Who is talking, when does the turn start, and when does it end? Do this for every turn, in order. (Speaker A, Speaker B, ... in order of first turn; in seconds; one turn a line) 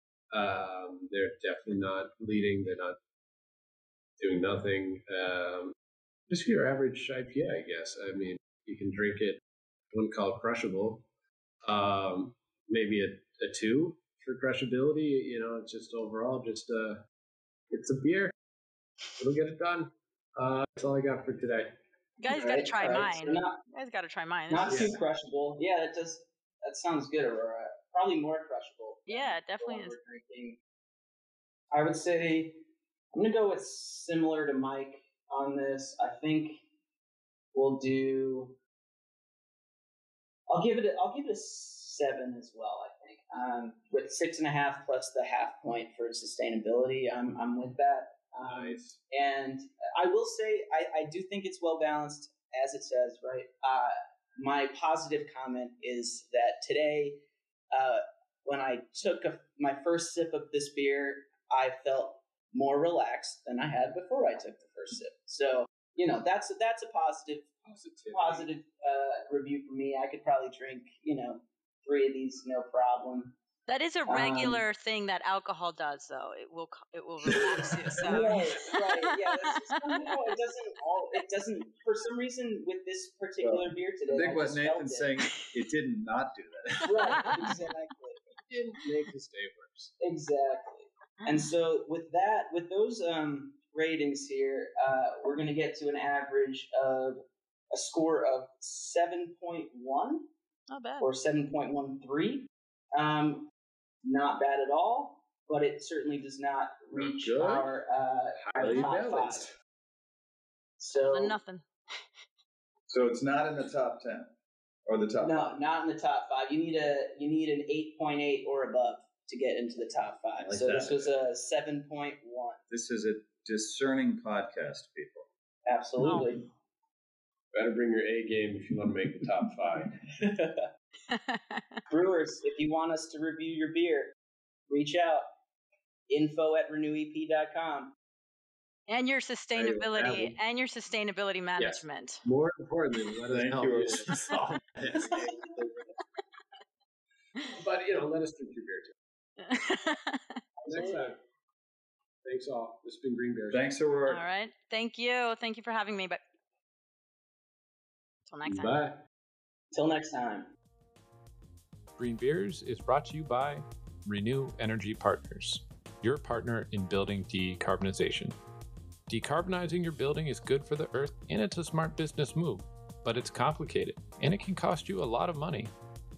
Speaker A: 0.3-3.0
Speaker A: 4.2-5.7
Speaker A: 6.3-9.4
Speaker A: 9.9-11.1
Speaker A: 11.6-17.0
Speaker A: 17.7-18.3
Speaker A: 19.2-21.8
Speaker B: 22.2-25.0
Speaker C: 22.3-23.6
Speaker C: 24.5-30.6
Speaker A: 24.7-25.0
Speaker B: 29.1-30.0
Speaker C: 31.7-36.6
Speaker C: 37.5-38.6
Speaker C: 40.5-67.6
Speaker A: 48.4-49.0
Speaker A: 67.7-68.5
Speaker C: 68.1-73.3
Speaker B: 73.7-80.2
Speaker C: 74.1-74.6
Speaker C: 78.0-85.1
Speaker D: 83.4-87.5
Speaker C: 86.8-88.2
Speaker A: 88.5-89.9
Speaker C: 90.0-97.2
Speaker C: 97.7-100.3
Speaker B: 100.7-101.1
Speaker C: 101.0-103.5
Speaker C: 104.0-109.5
Speaker A: 106.9-107.7
Speaker A: 108.4-109.5
Speaker C: 110.8-111.4
Speaker B: 111.1-111.7
Speaker D: 112.9-114.3
Speaker D: 114.9-115.6
Speaker C: 115.2-122.6
Speaker D: 120.4-121.1
Speaker D: 122.7-125.3
Speaker C: 125.7-126.5
Speaker B: 126.0-126.3
Speaker A: 127.5-130.0
Speaker C: 130.0-130.7
Speaker B: 131.1-131.8
Speaker C: 131.9-134.1
Speaker C: 134.7-135.3
Speaker C: 136.1-137.9
Speaker B: 138.9-142.2
Speaker A: 139.6-140.3
Speaker A: 141.6-145.7
Speaker D: 143.3-144.2
Speaker A: 147.4-148.9
Speaker B: 149.4-150.4
Speaker C: 150.6-151.1
Speaker A: 150.7-151.2
Speaker A: 152.2-153.7
Speaker D: 153.5-154.3
Speaker B: 154.1-156.2
Speaker B: 158.3-158.8
Speaker A: 158.4-159.0
Speaker C: 159.7-160.5
Speaker E: 162.0-168.3
Speaker E: 169.1-175.7